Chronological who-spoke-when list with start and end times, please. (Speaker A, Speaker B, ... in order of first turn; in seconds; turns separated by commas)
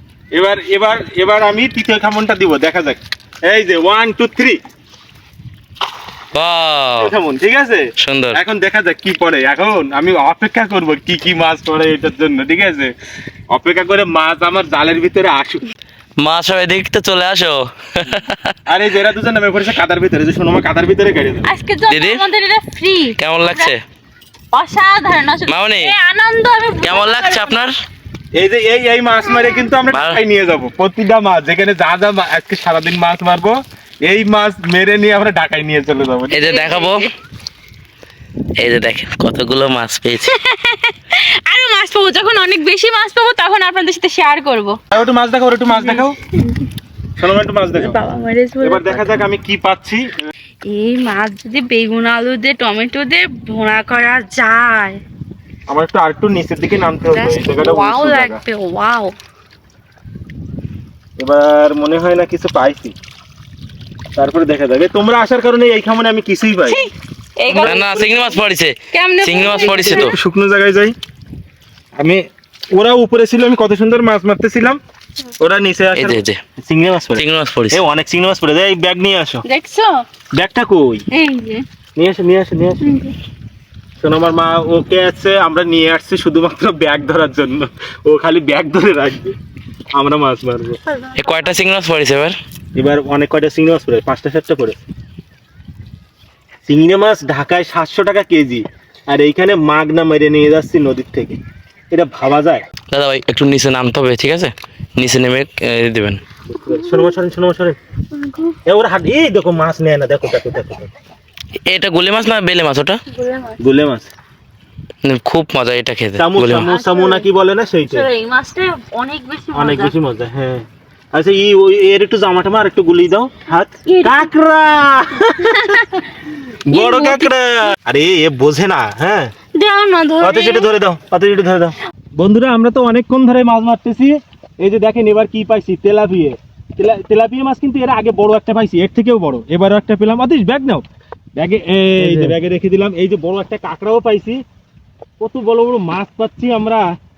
Speaker A: 0.3-4.6, Speaker B: 6.3-7.1, Speaker A: 7.0-12.9, Speaker B: 8.0-8.4, Speaker A: 13.5-15.6, Speaker B: 16.2-18.5, Speaker A: 18.7-21.5, Speaker C: 21.4-23.7, Speaker B: 21.9-22.2, Speaker B: 23.2-23.8, Speaker C: 24.5-27.6, Speaker B: 25.5-25.9, Speaker B: 26.8-27.8, Speaker A: 28.3-36.6, Speaker C: 29.2-29.6, Speaker B: 29.9-30.2, Speaker B: 36.3-37.1, Speaker C: 36.5-37.1, Speaker B: 38.6-40.3, Speaker C: 40.2-44.8, Speaker A: 44.9-46.2, Speaker C: 45.7-46.6, Speaker A: 47.2-48.0, Speaker C: 47.8-49.2, Speaker A: 48.6-50.1, Speaker C: 50.6-55.0, Speaker A: 55.7-58.4, Speaker C: 57.1-59.1, Speaker A: 61.2-63.0, Speaker A: 64.2-66.8, Speaker C: 66.7-68.2, Speaker A: 67.5-67.9, Speaker B: 67.6-70.2, Speaker C: 68.9-70.1, Speaker A: 69.4-70.9, Speaker A: 72.0-74.8, Speaker A: 75.4-79.4, Speaker B: 75.9-76.4, Speaker B: 77.2-77.8, Speaker C: 79.4-80.0, Speaker A: 80.3-81.0, Speaker C: 81.1-81.6, Speaker A: 82.0-82.8, Speaker C: 82.8-83.1, Speaker A: 84.0-89.3, Speaker A: 89.9-90.8, Speaker C: 90.9-91.5, Speaker B: 91.1-92.3, Speaker A: 92.8-94.8, Speaker A: 96.7-101.4, Speaker A: 101.9-102.6, Speaker B: 102.9-106.2, Speaker A: 106.5-107.8, Speaker C: 108.1-108.5, Speaker A: 108.7-110.9, Speaker B: 111.7-113.0, Speaker C: 113.1-113.6, Speaker A: 113.6-114.1, Speaker B: 115.0-116.7, Speaker A: 116.2-118.0, Speaker C: 116.6-117.3, Speaker C: 117.8-119.9, Speaker A: 119.5-125.8, Speaker C: 123.8-124.3, Speaker C: 125.4-126.0, Speaker A: 126.7-129.3, Speaker C: 126.7-127.3, Speaker C: 129.5-130.7, Speaker A: 130.2-140.8, Speaker A: 141.4-144.4, Speaker A: 145.2-146.8